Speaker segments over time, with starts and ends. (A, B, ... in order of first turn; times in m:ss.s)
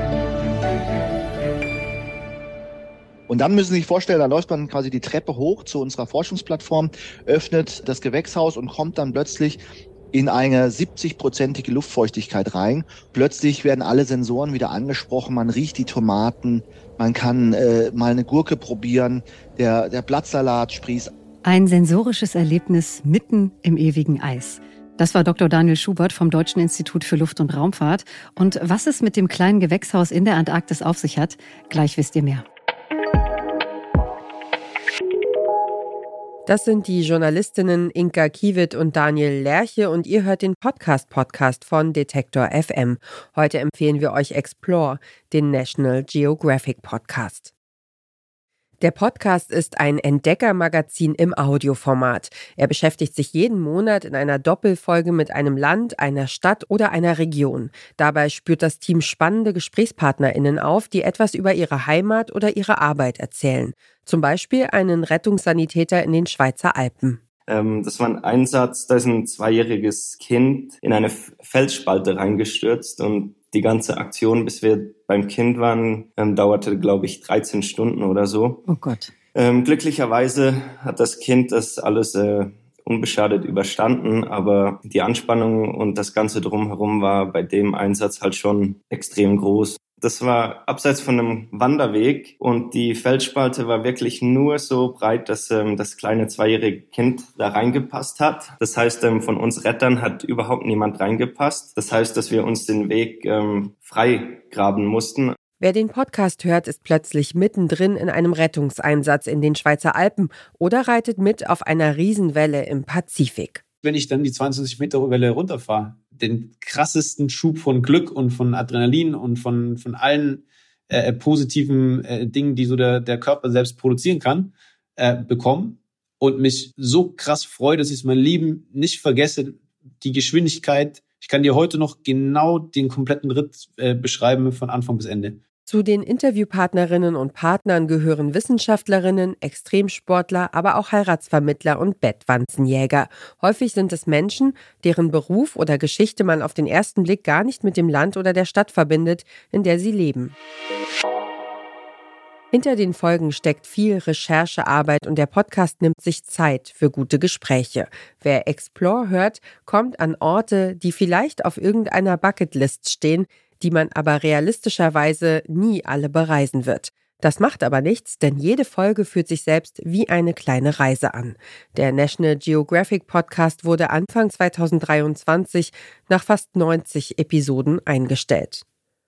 0:03.3-0:21.1 A
0:21.4-0:32.4 B
0:36.4-0:47.5 C
0:48.8-1:07.2 C
1:07.5-1:18.6 D
1:18.7-1:19.1 B
1:19.3-1:45.4 D
1:45.6-1:53.6 C
1:53.8-2:15.4 E
2:15.7-2:30.3 C
2:32.5-2:58.6 C